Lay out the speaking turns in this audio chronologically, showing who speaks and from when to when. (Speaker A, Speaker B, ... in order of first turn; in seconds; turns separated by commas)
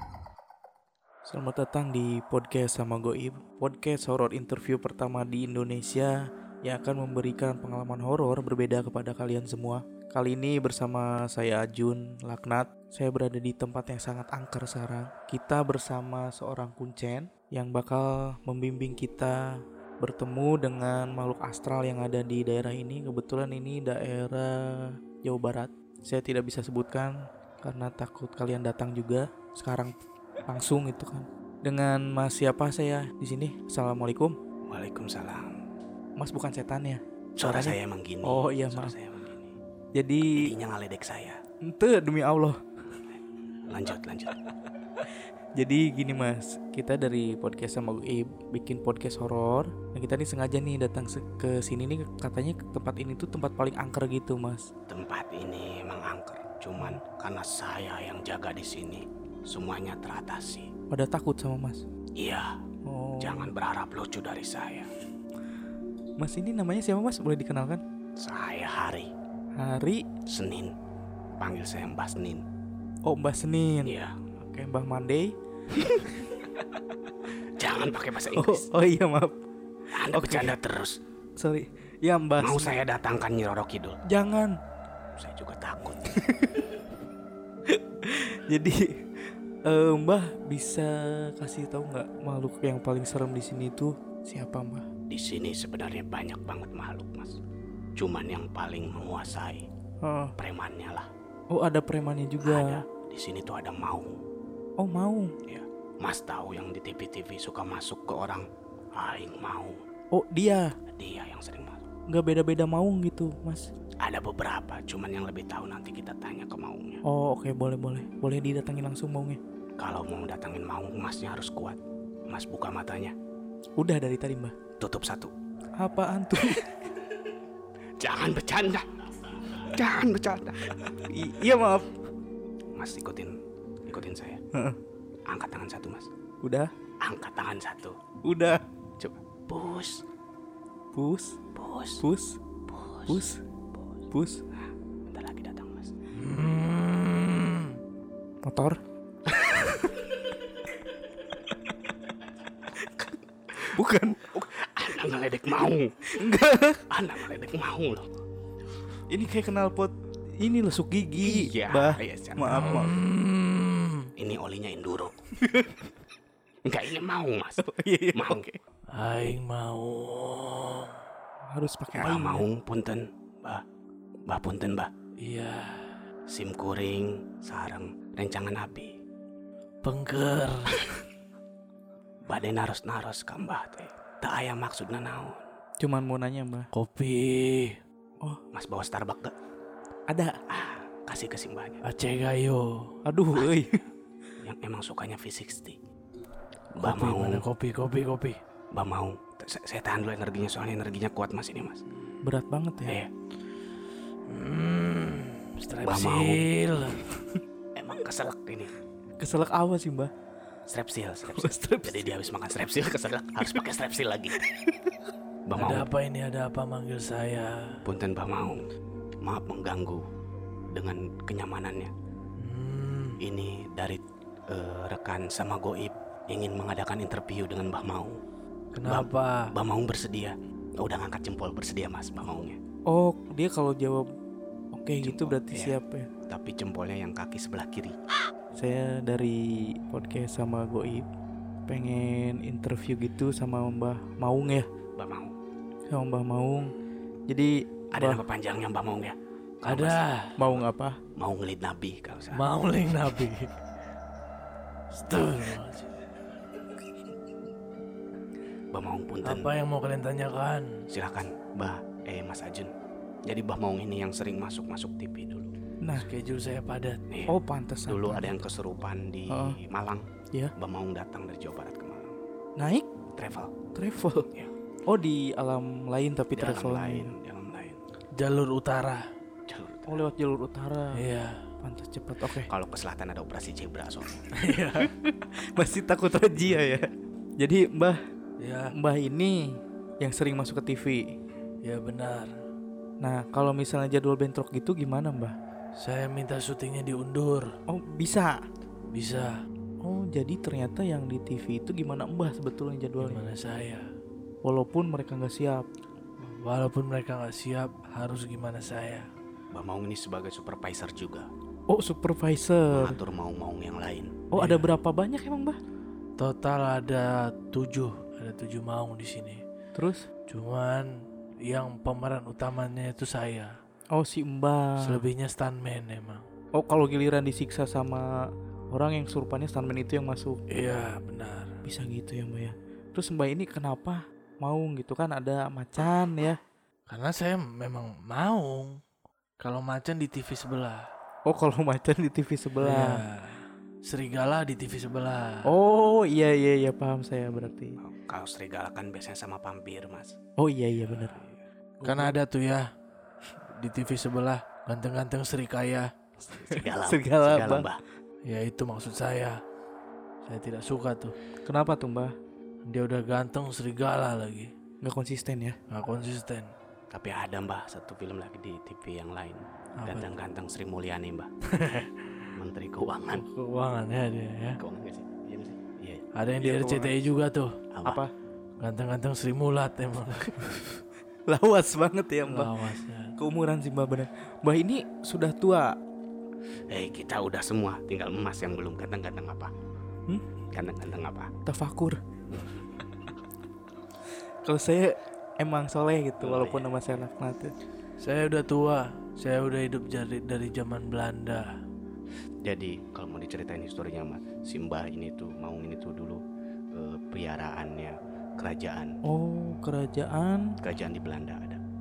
Speaker A: 1.3-29.9, Speaker A: 30.5-34.4, Speaker B: 34.7-35.6, Speaker A: 36.2-38.9, Speaker B: 37.4-39.5, Speaker A: 39.9-40.5, Speaker B: 40.3-41.4, Speaker A: 41.6-42.6, Speaker B: 43.7-44.4, Speaker A: 45.5-54.7, Speaker B: 54.9-60.7, Speaker A: 60.9-61.8, Speaker B: 62.2-62.6, Speaker A: 62.9-63.5, Speaker B: 63.2-64.9, Speaker A: 66.2-67.8, Speaker B: 68.2-69.1, Speaker A: 69.6-70.0, Speaker B: 70.3-70.7, Speaker B: 71.4-72.4, Speaker A: 73.0-76.7, Speaker B: 73.8-74.2, Speaker B: 77.6-78.7, Speaker A: 78.3-79.4, Speaker B: 79.9-81.0, Speaker A: 80.1-80.6, Speaker A: 81.4-82.8, Speaker B: 82.4-84.0, Speaker A: 84.1-84.6, Speaker B: 85.2-86.2, Speaker A: 86.2-86.7, Speaker A: 87.7-88.9, Speaker A: 89.7-94.9, Speaker B: 95.1-97.4, Speaker B: 98.0-99.7, Speaker A: 100.0-100.3, Speaker B: 100.4-101.1, Speaker A: 101.5-102.8, Speaker B: 102.4-104.2, Speaker A: 104.8-105.3, Speaker B: 105.5-109.8, Speaker A: 110.1-110.7, Speaker B: 110.9-111.8, Speaker A: 112.1-113.7, Speaker B: 114.0-117.0, Speaker A: 117.0-119.4, Speaker B: 119.8-123.1, Speaker A: 123.8-124.5, Speaker B: 124.8-125.3, Speaker A: 125.8-126.7, Speaker B: 128.0-131.0, Speaker A: 131.1-131.9, Speaker B: 132.8-134.4, Speaker B: 135.3-136.1, Speaker A: 136.4-136.7, Speaker B: 137.0-138.0, Speaker A: 138.2-138.6, Speaker B: 139.0-140.0, Speaker A: 140.9-141.4, Speaker B: 141.6-142.0, Speaker A: 142.0-142.4, Speaker B: 142.7-143.2, Speaker A: 143.1-143.4, Speaker A: 144.1-144.4, Speaker B: 145.1-145.9, Speaker C: 146.1-147.7, Speaker A: 148.4-148.8, Speaker B: 149.4-149.9, Speaker B: 153.6-156.0, Speaker A: 153.7-154.3, Speaker A: 156.2-156.8, Speaker B: 156.9-158.1, Speaker A: 159.1-162.9, Speaker B: 161.2-163.0, Speaker C: 162.5-164.1, Speaker B: 164.2-165.2, Speaker B: 166.7-168.5, Speaker A: 167.6-168.6, Speaker C: 168.9-170.9, Speaker A: 171.5-172.5, Speaker B: 171.9-173.6, Speaker B: 174.3-174.9, Speaker C: 175.2-175.9, Speaker B: 176.3-178.9, Speaker C: 179.8-180.8, Speaker B: 182.3-185.4, Speaker A: 185.8-186.7, Speaker C: 186.7-187.8, Speaker B: 188.5-189.4, Speaker A: 190.1-190.4, Speaker B: 190.5-191.8, Speaker C: 191.8-192.9, Speaker A: 193.1-193.8, Speaker B: 193.4-193.8, Speaker B: 194.4-195.8, Speaker B: 196.8-197.5, Speaker C: 196.8-198.4, Speaker B: 198.7-201.8, Speaker A: 202.2-203.0, Speaker B: 202.9-203.1, Speaker C: 204.3-207.0, Speaker B: 205.8-206.5, Speaker B: 207.8-208.8, Speaker A: 209.2-210.1, Speaker B: 210.7-214.4, Speaker A: 211.4-212.1, Speaker B: 215.5-215.9, Speaker C: 215.6-217.8, Speaker B: 217.8-218.7, Speaker B: 219.2-220.1, Speaker B: 220.7-221.9, Speaker C: 222.4-223.2, Speaker B: 223.2-228.2, Speaker C: 228.7-229.5, Speaker B: 228.8-232.6, Speaker A: 232.9-234.1, Speaker A: 234.7-236.1, Speaker B: 235.0-238.0, Speaker A: 238.6-241.1, Speaker A: 241.7-244.7, Speaker B: 245.0-245.3, Speaker A: 245.9-246.7, Speaker A: 247.3-248.2, Speaker B: 247.9-252.5, Speaker C: 249.7-250.4, Speaker A: 250.4-251.0, Speaker C: 252.3-253.5, Speaker C: 254.9-255.9, Speaker B: 258.7-259.5, Speaker C: 259.2-260.8, Speaker B: 260.9-262.7, Speaker B: 263.3-265.6, Speaker A: 265.8-266.1, Speaker C: 265.9-267.0, Speaker B: 267.1-272.2, Speaker A: 267.3-268.3, Speaker A: 269.3-269.6, Speaker A: 272.6-272.9, Speaker B: 273.1-273.6, Speaker A: 273.8-274.3, Speaker A: 274.9-277.1, Speaker B: 276.3-277.8, Speaker C: 278.2-279.0, Speaker B: 279.5-280.1, Speaker A: 279.9-281.1, Speaker C: 280.9-281.4, Speaker A: 281.6-282.5, Speaker B: 282.4-284.3, Speaker C: 284.4-284.9, Speaker A: 284.7-288.0, Speaker C: 288.4-288.7, Speaker A: 288.8-291.2, Speaker C: 291.6-292.3, Speaker A: 293.0-295.4, Speaker C: 295.8-297.5, Speaker A: 297.7-298.4, Speaker C: 298.9-299.4, Speaker A: 299.8-303.3, Speaker C: 303.0-303.9, Speaker A: 304.4-305.7, Speaker C: 306.2-309.1, Speaker B: 309.5-311.3, Speaker A: 311.7-313.0, Speaker B: 312.7-314.4, Speaker A: 314.3-315.6, Speaker C: 314.4-314.7, Speaker C: 316.2-319.4, Speaker A: 319.8-320.1, Speaker C: 320.3-323.5, Speaker A: 323.9-325.0, Speaker C: 324.8-326.3, Speaker A: 326.6-328.1, Speaker A: 328.7-330.4, Speaker C: 330.5-331.6, Speaker A: 331.6-336.4, Speaker C: 336.9-338.8, Speaker C: 339.4-340.9, Speaker A: 341.3-343.0, Speaker C: 342.6-345.5, Speaker A: 345.5-347.8, Speaker B: 347.3-350.2, Speaker A: 350.4-351.2, Speaker A: 351.8-352.1, Speaker C: 351.8-352.6, Speaker C: 353.4-355.9, Speaker B: 356.3-357.8, Speaker A: 356.5-357.7, Speaker C: 358.3-359.4, Speaker C: 360.2-361.1, Speaker A: 361.4-362.1, Speaker C: 362.7-364.5, Speaker A: 364.8-365.6, Speaker C: 365.7-366.5, Speaker B: 366.9-371.3, Speaker C: 369.8-370.1, Speaker C: 371.5-372.3, Speaker B: 372.3-373.3, Speaker C: 373.1-374.6, Speaker B: 374.6-376.0, Speaker C: 376.1-377.6, Speaker A: 376.4-377.0, Speaker B: 377.7-378.0, Speaker A: 377.9-378.1, Speaker C: 378.6-380.7, Speaker A: 381.3-382.6, Speaker C: 382.2-383.2, Speaker A: 383.2-385.7, Speaker B: 386.7-389.5, Speaker B: 390.5-391.3, Speaker A: 391.5-392.0, Speaker A: 394.4-397.5, Speaker B: 396.2-397.1, Speaker C: 398.0-401.5, Speaker B: 402.4-406.2, Speaker B: 406.7-409.0, Speaker A: 409.1-410.5, Speaker B: 410.6-411.6